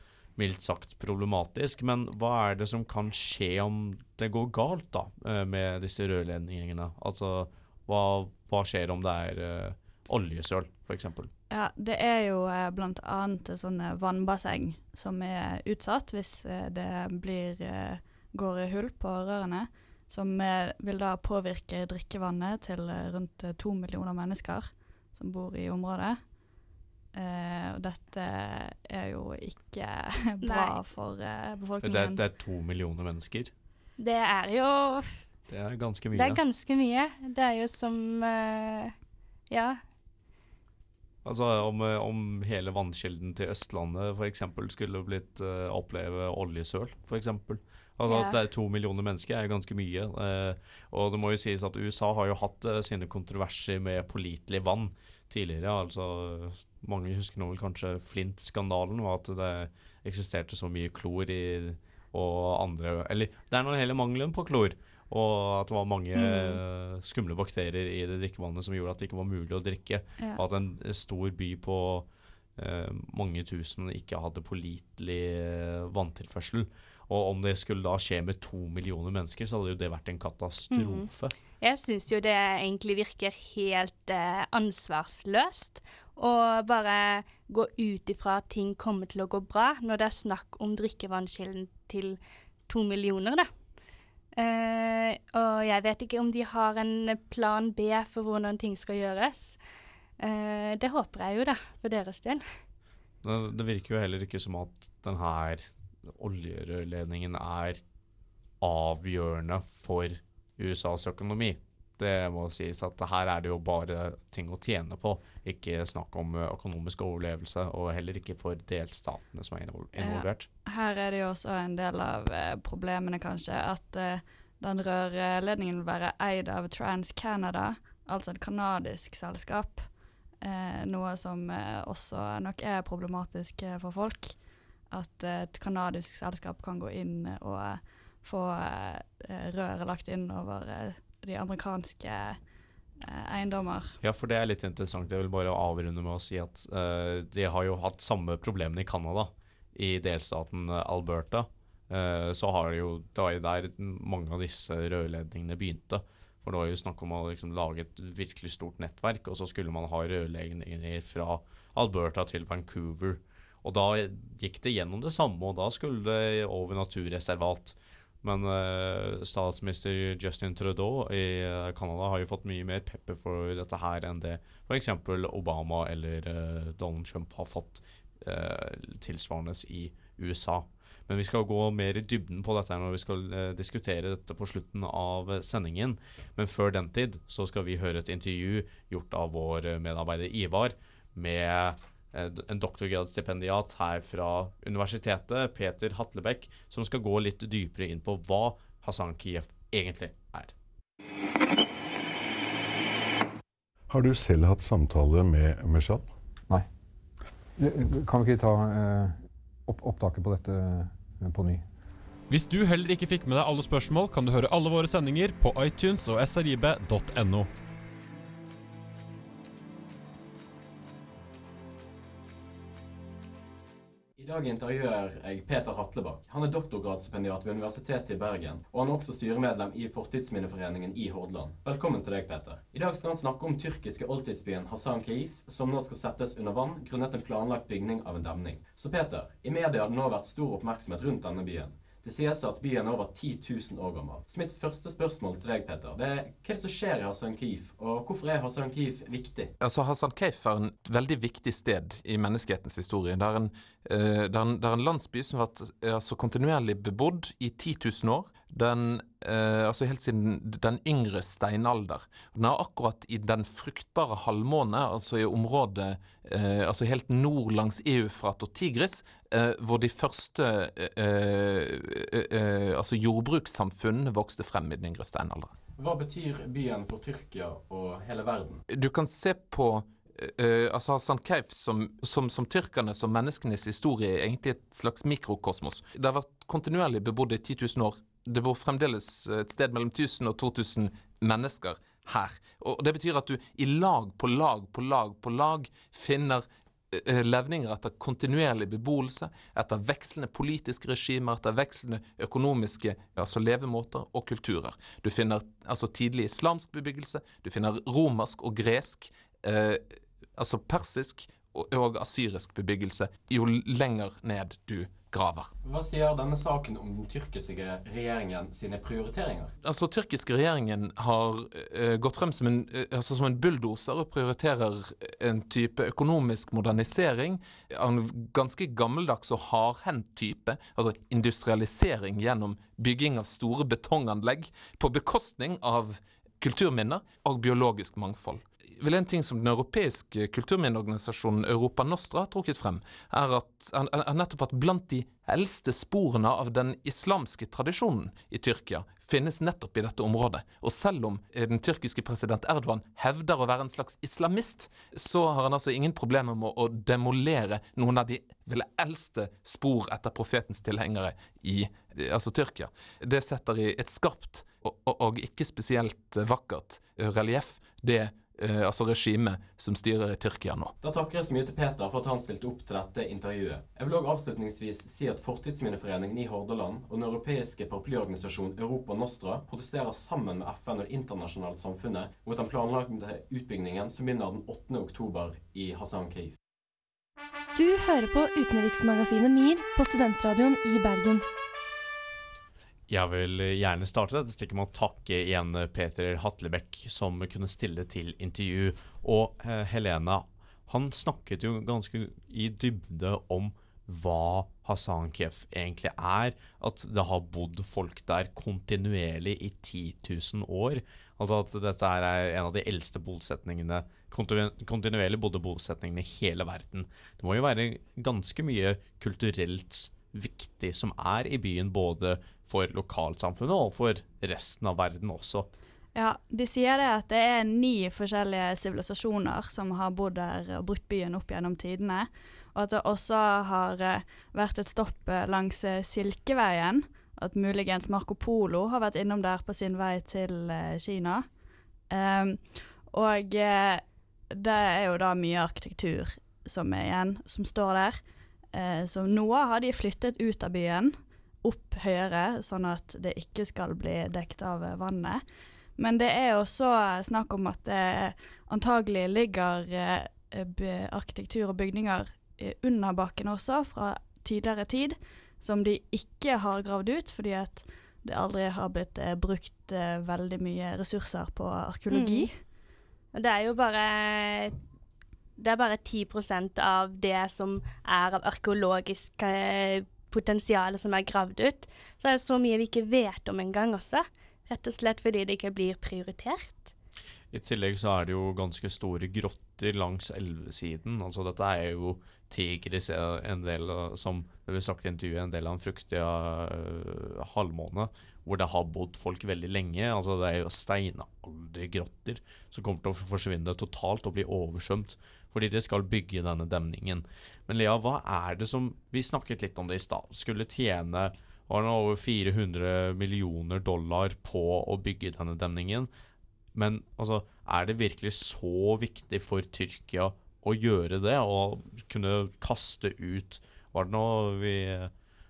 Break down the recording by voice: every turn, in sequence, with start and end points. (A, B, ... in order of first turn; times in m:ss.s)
0:00.4-0:11.3 A
0:11.5-0:26.2 B
0:27.1-0:32.2 B
0:30.4-0:30.8 C
0:31.8-0:33.5 A
0:34.0-0:35.3 C
0:35.5-0:36.4 A
0:36.1-0:38.9 C
0:39.5-0:39.8 C
0:41.2-1:21.3 A
0:48.1-0:48.4 C
1:06.1-1:06.6 C
1:10.2-1:10.4 B
1:20.7-1:21.1 C
1:21.6-1:33.5 C
1:34.4-1:39.6 C
1:40.2-1:42.4 C
1:43.2-1:47.8 A
1:48.6-2:00.5 A
2:00.0-2:09.9 B
2:10.4-2:14.4 B
2:14.9-2:22.4 B
2:23.0-2:24.0 B
2:24.0-3:20.5 A
3:23.9-3:26.1 D
3:27.6-3:31.6 E
3:32.3-3:37.5 F
3:44.2-4:09.5 G
4:09.6-4:35.5 H
4:35.8-4:38.6 G
4:38.7-5:09.8 H
5:10.4-5:15.5 H
5:15.6-5:19.5 G
5:19.6-6:10.7 H
6:10.8-6:26.4 G
6:27.5-6:31.2 I
6:32.9-7:05.5 A
7:06.0-7:21.2 B
7:21.9-7:28.0 B
7:28.5-7:35.2 B
7:35.8-7:52.3 B
7:51.9-7:52.3 C
7:53.1-7:54.6 C
7:55.4-8:06.7 C
8:07.3-8:35.9 A
8:36.5-8:44.9 A